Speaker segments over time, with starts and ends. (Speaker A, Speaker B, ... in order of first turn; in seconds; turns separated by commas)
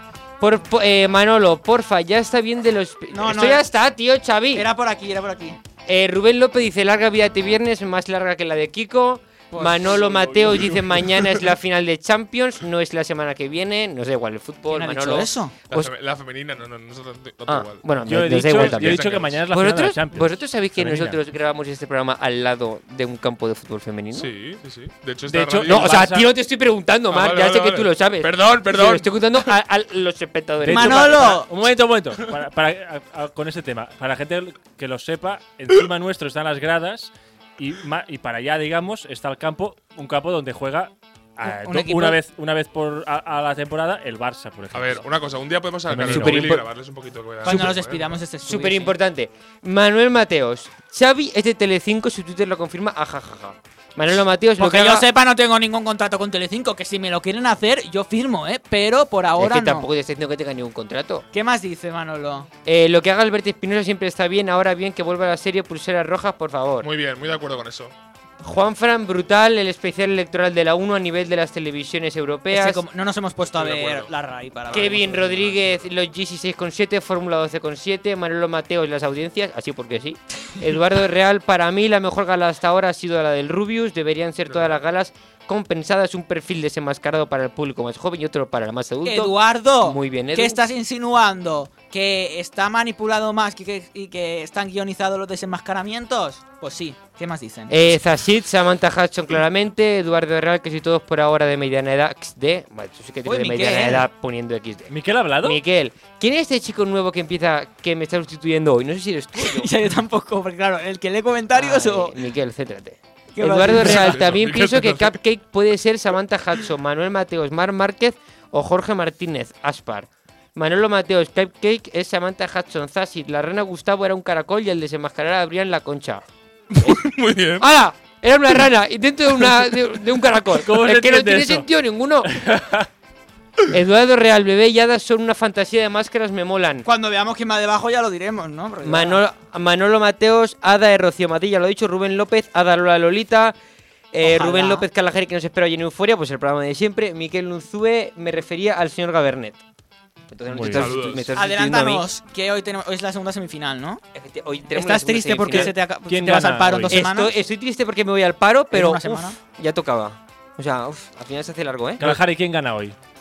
Speaker A: 0.4-4.7, Speaker B: 3.1-3.6, Speaker B: 4.5-5.6, Speaker A: 5.9-15.9, Speaker B: 9.5-10.6, Speaker B: 14.7-15.5, Speaker C: 15.7-17.8, Speaker A: 17.5-24.3, Speaker D: 18.1-21.2, Speaker C: 18.4-19.5, Speaker C: 24.1-26.1, Speaker D: 25.3-26.3, Speaker A: 25.7-31.4, Speaker C: 27.1-29.5, Speaker D: 30.6-45.0, Speaker B: 30.7-31.5, Speaker B: 41.4-42.2, Speaker C: 44.7-48.1, Speaker D: 45.9-46.7, Speaker A: 46.1-46.4, Speaker B: 47.4-49.0, Speaker A: 48.5-55.0, Speaker B: 54.6-59.9, Speaker A: 59.4-61.2, Speaker B: 61.3-62.5, Speaker A: 62.6-66.9, Speaker C: 66.8-67.9, Speaker A: 68.4-72.8, Speaker B: 72.5-75.5, Speaker C: 73.5-74.1, Speaker C: 74.7-75.9, Speaker A: 74.7-90.6, Speaker C: 84.5-84.8, Speaker B: 89.0-98.0, Speaker A: 97.7-109.7, Speaker B: 103.2-104.1, Speaker D: 104.9-105.6, Speaker B: 109.4-112.2, Speaker A: 111.5-126.2, Speaker B: 113.3-114.2, Speaker C: 113.7-115.2, Speaker C: 126.7-127.7, Speaker A: 127.6-132.3, Speaker D: 130.6-131.7, Speaker D: 132.2-132.9, Speaker A: 133.7-136.9, Speaker B: 136.8-139.2, Speaker A: 138.8-143.5, Speaker A: 144.1-149.6, Speaker B: 144.2-144.9, Speaker A: 150.3-152.0, Speaker D: 150.5-150.9, Speaker C: 150.7-151.3, Speaker B: 151.3-154.0, Speaker A: 154.1-155.7, Speaker B: 154.7-157.3, Speaker D: 156.1-157.0, Speaker A: 156.9-162.2, Speaker B: 158.7-159.4, Speaker D: 162.0-162.9